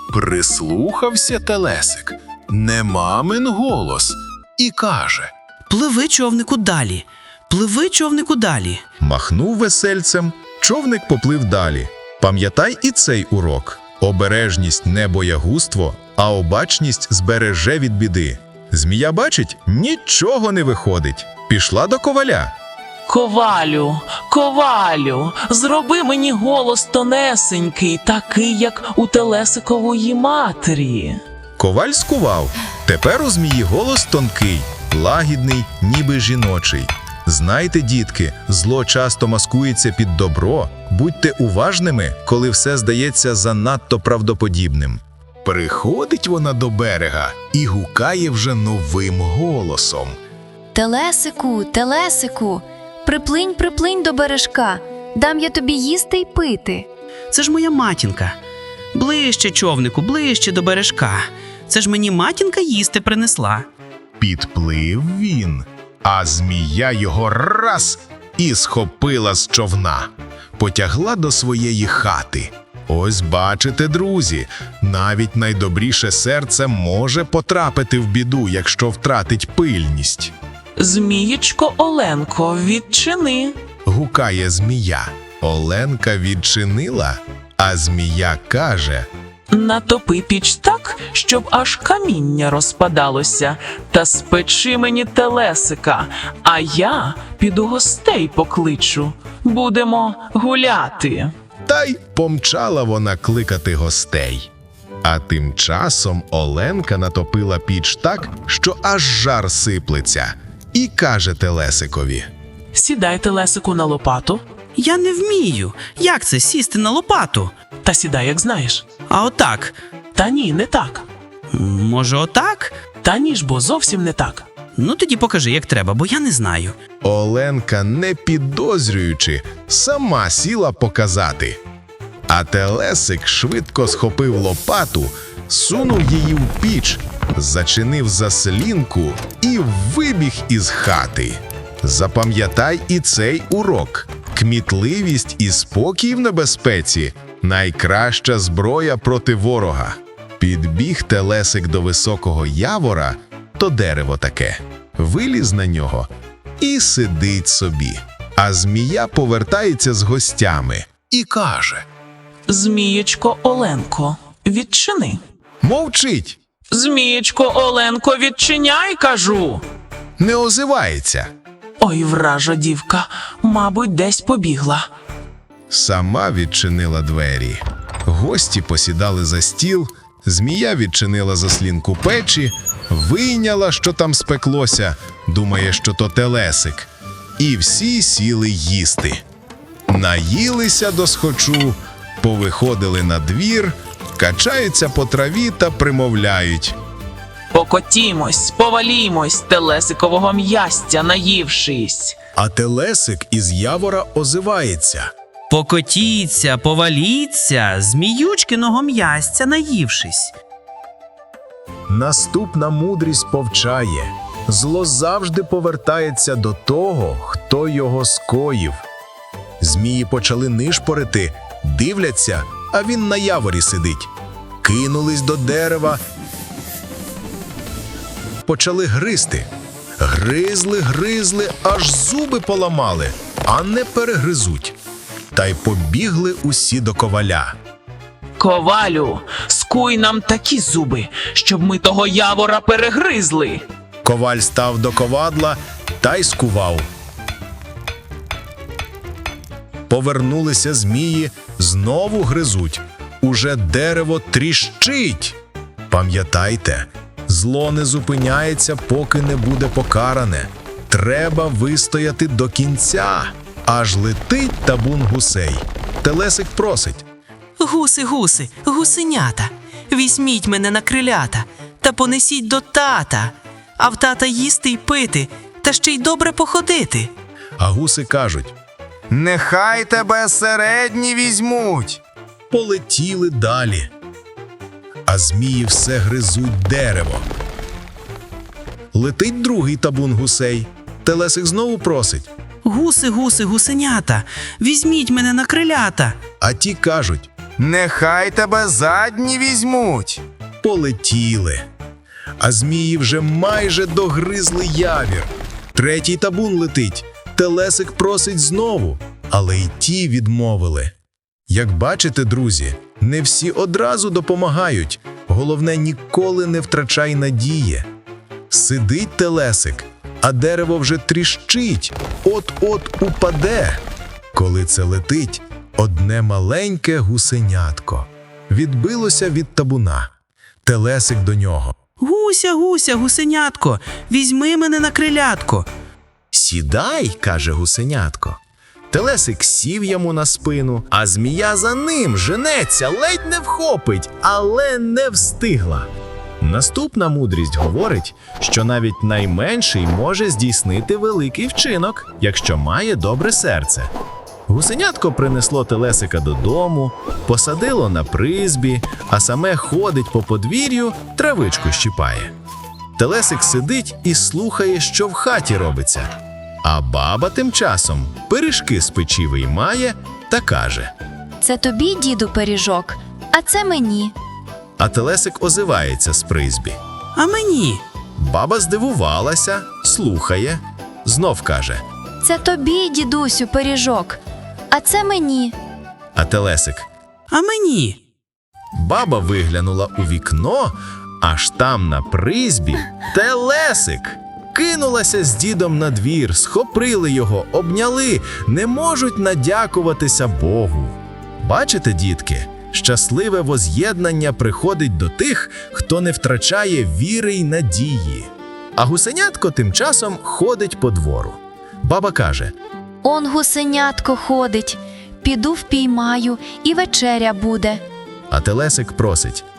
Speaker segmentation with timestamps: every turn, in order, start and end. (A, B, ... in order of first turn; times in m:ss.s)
0:00.1-0:05.3 A
0:05.7-0:08.8 B
0:09.0-0:22.5 A
0:23.1-0:31.2 C
0:31.6-0:50.2 A
0:50.7-0:56.9 D
0:57.3-0:58.4 B
0:58.9-1:03.7 B
1:04.2-1:20.3 A
1:20.8-1:23.6 C
1:23.8-1:29.1 A
1:29.5-1:41.3 C
1:41.6-1:44.5 A
1:45.0-1:52.3 A
1:52.7-1:54.4 C
1:54.8-1:57.5 B
1:57.8-1:58.9 C
1:59.1-1:59.8 B
2:00.1-2:01.0 C
2:01.5-2:02.8 B
2:03.0-2:04.4 C
2:04.7-2:06.8 B
2:07.0-2:11.6 A
2:12.3-2:41.8 A
2:42.5-2:45.2 C
2:45.6-2:46.4 A
2:46.7-2:49.6 C
2:50.2-2:51.3 A
2:51.8-2:54.9 C
2:55.7-3:09.2 A
3:09.9-3:16.8 A
3:17.5-3:22.2 C
3:22.4-3:25.1 A
3:25.5-3:30.3 B
3:31.9-3:38.8 A
3:39.6-3:44.1 A
3:44.6-3:46.0 A
3:48.4-3:49.5 A
3:50.0-3:54.8 A
3:55.3-3:57.5 A
3:58.4-4:03.6 C
4:04.0-4:06.9 A
4:09.9-4:15.4 A
4:15.9-4:27.0 A
4:27.7-4:29.0 B
4:27.9-4:28.4 E
4:29.1-4:29.4 E
4:30.6-4:31.3 E
4:31.8-4:33.3 E
4:33.8-4:37.0 E
4:37.6-4:38.5 A
4:39.1-4:42.0 A
4:42.5-4:43.9 A
4:45.1-4:47.3 A
4:48.9-4:52.3 A
4:52.6-4:56.2 B
4:56.4-5:01.6 A
5:02.4-5:10.9 A
5:11.5-5:17.9 A
5:18.5-5:23.8 A
5:24.3-5:30.1 A
5:30.6-5:31.7 A
5:32.0-5:35.7 B
5:36.3-5:38.4 A
5:38.9-5:45.9 A
5:46.4-5:53.9 A
5:54.5-6:02.3 A
6:03.0-6:06.1 A
6:06.6-6:10.9 A
6:11.4-6:14.1 D
6:14.8-6:16.8 A
6:17.2-6:17.8 B
6:18.2-6:21.8 A
6:22.2-6:24.2 D
6:24.7-6:25.5 D
6:26.1-6:26.8 A
6:27.3-6:28.0 B
6:28.7-6:52.5 A
6:53.0-6:57.8 D
6:58.3-6:59.4 A